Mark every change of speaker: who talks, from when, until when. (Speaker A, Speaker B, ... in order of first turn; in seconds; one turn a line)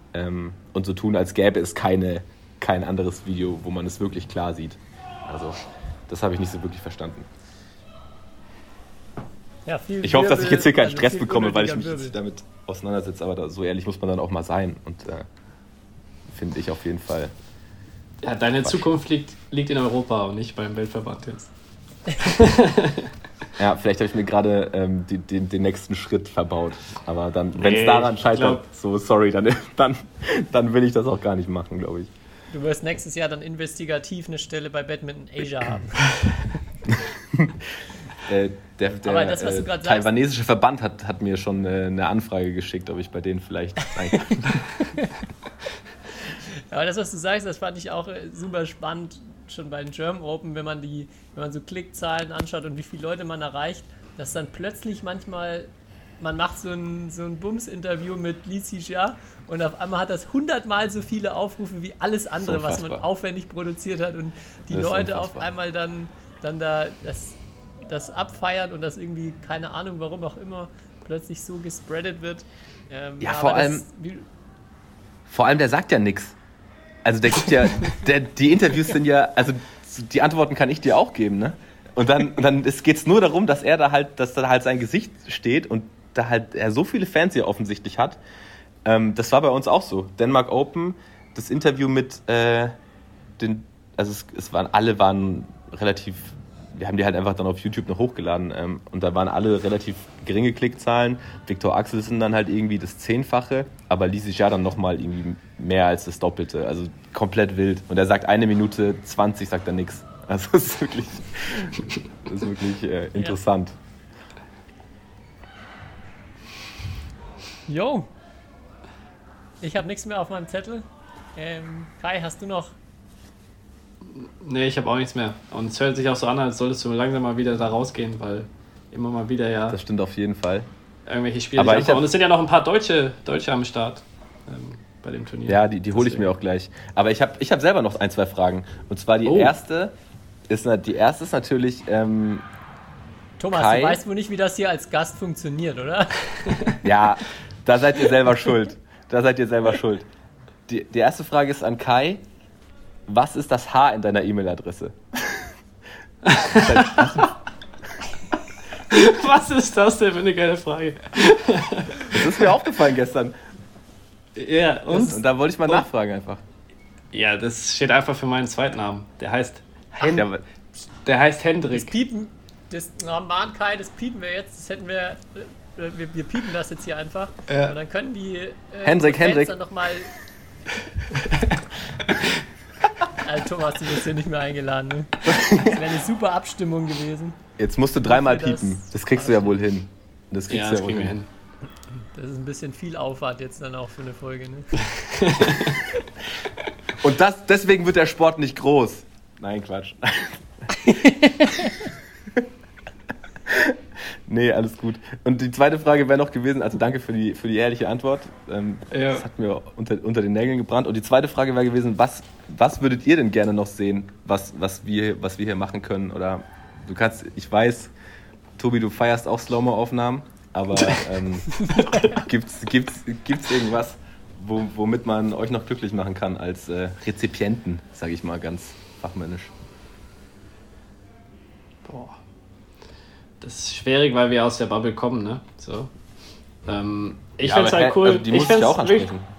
Speaker A: 0.1-7.3
Speaker B: 9.7-12.2
Speaker A: 10.0-15.3
Speaker A: 16.3-17.3
Speaker C: 18.2-21.5
Speaker C: 22.2-23.1
Speaker A: 23.6-32.1
Speaker C: 27.6-28.6
Speaker B: 32.5-36.2
Speaker A: 36.9-37.7
Speaker A: 38.2-44.6
Speaker B: 39.0-40.1
Speaker B: 46.5-74.3
Speaker A: 62.4-63.0
Speaker A: 64.7-65.5
Speaker A: 73.2-73.9
Speaker A: 75.3-76.4
Speaker A: 77.0-88.2
Speaker A: 88.8-92.8
Speaker A: 93.4-113.8
Speaker B: 117.7-118.1
Speaker B: 119.6-122.7
Speaker C: 124.1-129.8
Speaker A: 129.7-130.7
Speaker C: 131.1-136.3
Speaker A: 131.6-132.1
Speaker A: 135.5-139.9
Speaker C: 139.3-139.5
Speaker A: 140.5-142.5
Speaker B: 143.4-146.3
Speaker A: 143.5-144.0
Speaker A: 146.8-150.1
Speaker A: 150.7-152.2
Speaker A: 153.1-155.5
Speaker C: 156.2-157.2
Speaker A: 156.5-157.4
Speaker C: 158.9-162.4
Speaker A: 162.1-163.3
Speaker C: 164.3-165.8
Speaker A: 164.9-166.4
Speaker C: 167.1-170.3
Speaker A: 170.0-170.4
Speaker C: 171.1-171.9
Speaker B: 171.7-180.1
Speaker C: 177.5-177.8
Speaker A: 178.8-179.6
Speaker B: 183.2-187.4
Speaker A: 185.3-185.8
Speaker A: 187.6-191.2
Speaker B: 188.0-189.6
Speaker C: 190.5-191.3
Speaker B: 192.1-194.8
Speaker C: 195.1-195.8
Speaker A: 197.0-202.5
Speaker A: 203.5-217.9
Speaker C: 208.9-209.2
Speaker A: 218.6-229.5
Speaker C: 231.8-232.2
Speaker C: 233.4-235.9
Speaker C: 236.7-239.1
Speaker A: 237.4-239.3